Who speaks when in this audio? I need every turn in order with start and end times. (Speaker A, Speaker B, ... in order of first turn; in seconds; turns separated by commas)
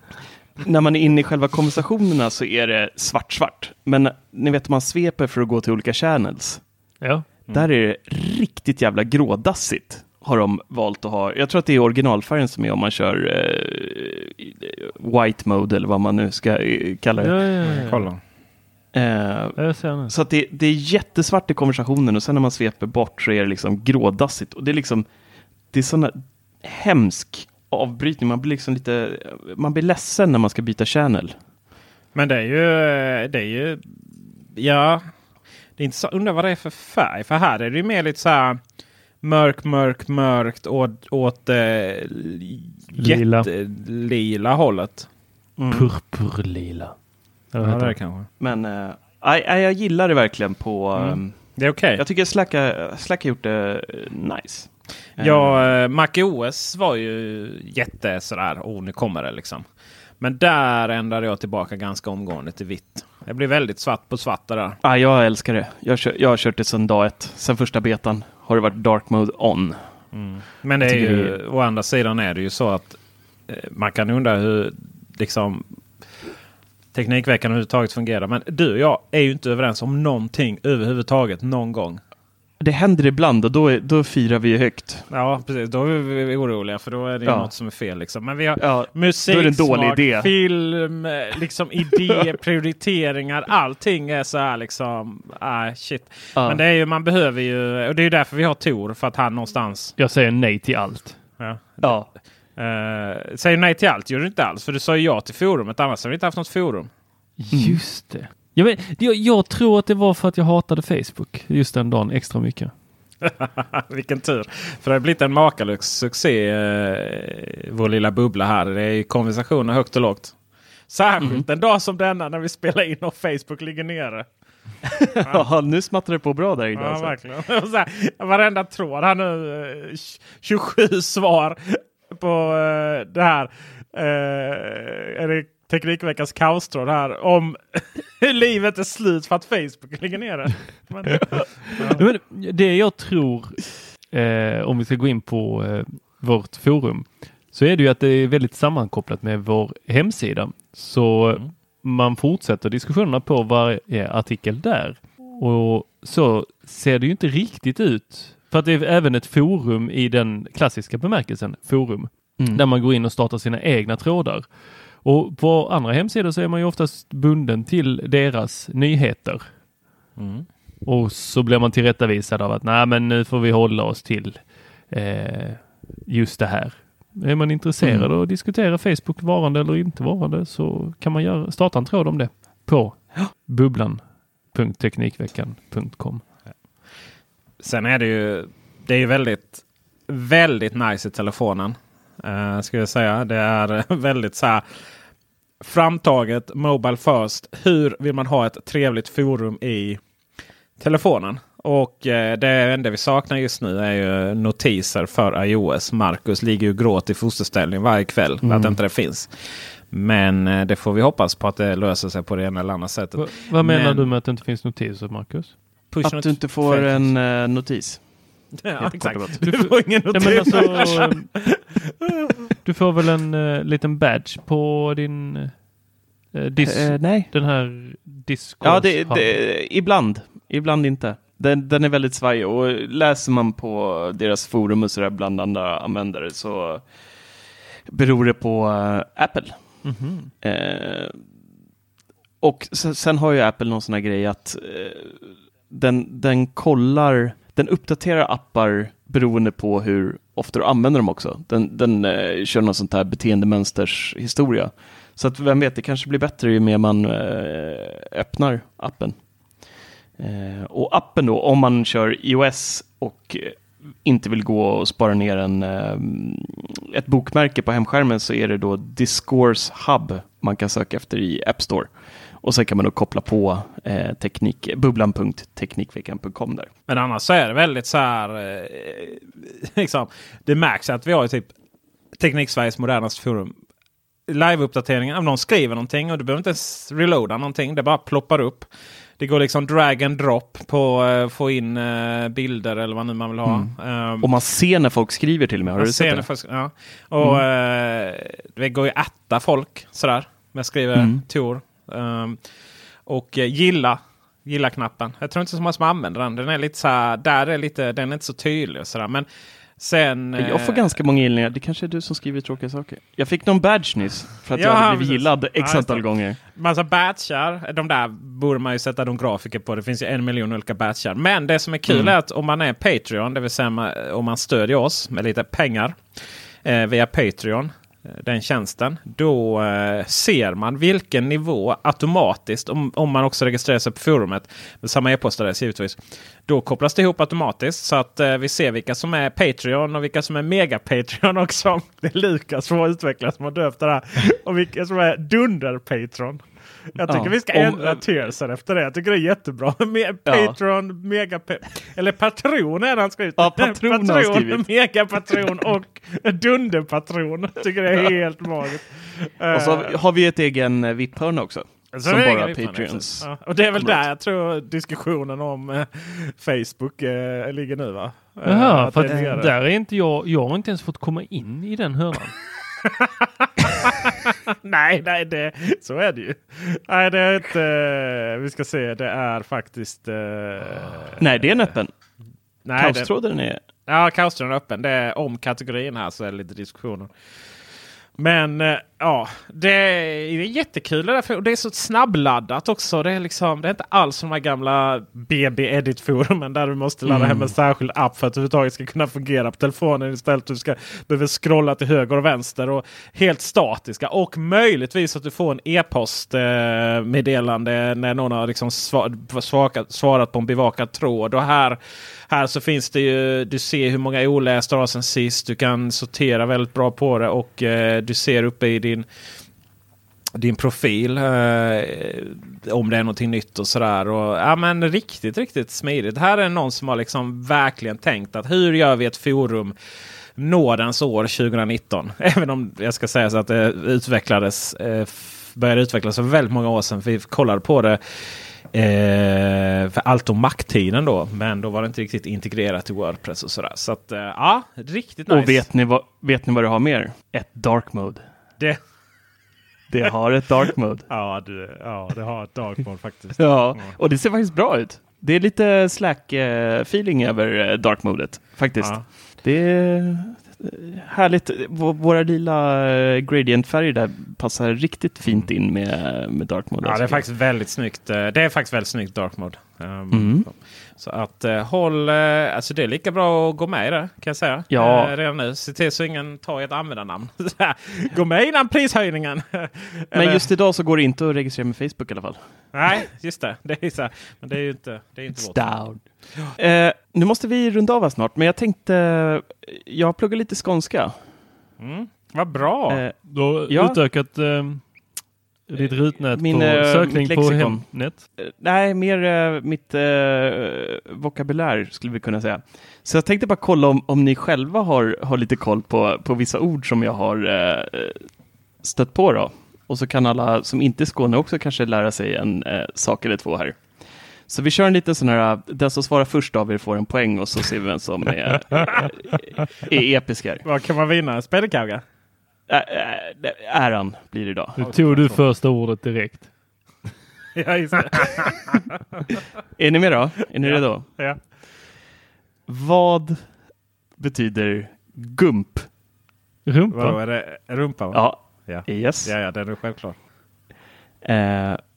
Speaker A: 0.6-6.6, Speaker B: 7.0-7.3, Speaker A: 7.5-17.4, Speaker B: 17.2-18.1, Speaker C: 17.6-18.2, Speaker A: 18.9-25.1, Speaker B: 19.6-20.1, Speaker A: 25.7-31.4, Speaker C: 32.1-34.0, Speaker C: 34.5-35.0, Speaker C: 35.8-38.6, Speaker C: 39.2-45.1, Speaker B: 43.0-43.5, Speaker B: 45.7-46.9, Speaker B: 47.5-47.9, Speaker C: 47.6-48.3, Speaker A: 48.4-55.8, Speaker C: 51.0-52.0, Speaker C: 55.2-59.6, Speaker C: 60.2-64.8, Speaker A: 64.8-69.8, Speaker C: 70.1-75.6, Speaker A: 70.8-71.4, Speaker C: 76.9-82.0, Speaker A: 82.6-85.1, Speaker C: 85.1-99.9, Speaker A: 87.2-87.5, Speaker A: 88.6-90.3, Speaker A: 96.3-96.6, Speaker B: 100.0-101.2, Speaker C: 101.4-106.9, Speaker A: 101.8-102.1, Speaker B: 107.4-112.7, Speaker A: 107.5-107.8, Speaker C: 113.2-120.3, Speaker C: 120.9-124.2, Speaker A: 125.2-127.1, Speaker C: 126.7-142.0, Speaker B: 141.9-164.5, Speaker B: 165.0-169.4, Speaker C: 170.2-170.5, Speaker B: 170.8-186.2, Speaker A: 177.8-178.1, Speaker C: 187.6-194.6, Speaker C: 195.6-200.0, Speaker C: 200.8-209.3, Speaker A: 208.4-208.8, Speaker C: 209.9-214.1, Speaker B: 213.2-215.6, Speaker C: 215.9-217.1, Speaker A: 216.0-219.6, Speaker C: 218.6-222.3, Speaker B: 219.4-221.3, Speaker A: 220.2-221.1, Speaker B: 222.6-225.6, Speaker B: 226.3-229.3, Speaker A: 226.6-227.3, Speaker A: 228.6-236.9, Speaker A: 237.9-239.9, Speaker C: 239.8-240.3, Speaker A: 240.4-241.2, Speaker A: 242.4-259.3, Speaker A: 260.2-276.7, Speaker C: 276.9-281.5, Speaker C: 282.2-283.6, Speaker C: 284.3-294.3, Speaker A: 293.4-296.3, Speaker C: 295.8-302.4, Speaker A: 300.9-301.2, Speaker C: 303.1-309.2, Speaker C: 309.8-310.8, Speaker A: 310.4-316.4, Speaker C: 314.6-326.0, Speaker A: 321.9-322.1, Speaker C: 326.6-360.0, Speaker A: 347.1-348.0, Speaker A: 350.3-350.6, Speaker A: 353.4-354.6, Speaker A: 359.5-364.0, Speaker C: 361.9-369.5, Speaker B: 368.4-372.4, Speaker C: 372.8-381.5, Speaker A: 381.2-381.9, Speaker C: 382.6-383.1, Speaker A: 382.8-383.6, Speaker C: 383.9-387.1, Speaker C: 388.2-411.8, Speaker A: 397.1-397.5, Speaker C: 412.3-419.1, Speaker C: 420.4-429.7, Speaker C: 430.4-438.0, Speaker C: 438.7-445.6, Speaker A: 445.3-448.2, Speaker A: 449.9-451.1, Speaker C: 451.1-453.9, Speaker A: 453.4-467.2, Speaker C: 466.8-480.5, Speaker A: 470.1-470.4, Speaker A: 474.7-475.1, Speaker A: 480.1-482.4, Speaker C: 482.7-485.9, Speaker A: 485.3-491.2, Speaker C: 491.8-493.0, Speaker A: 492.9-494.0, Speaker B: 493.2-494.9, Speaker B: 495.7-498.2, Speaker A: 495.8-520.6, Speaker C: 520.6-522.0, Speaker A: 522.7-524.8, Speaker B: 524.8-526.5, Speaker C: 524.8-525.4, Speaker C: 527.5-528.8, Speaker A: 529.8-531.1, Speaker C: 530.6-531.4, Speaker A: 532.7-533.7, Speaker A: 534.2-535.9, Speaker B: 536.6-537.2, Speaker C: 536.9-540.2, Speaker A: 538.1-539.3, Speaker A: 541.2-541.8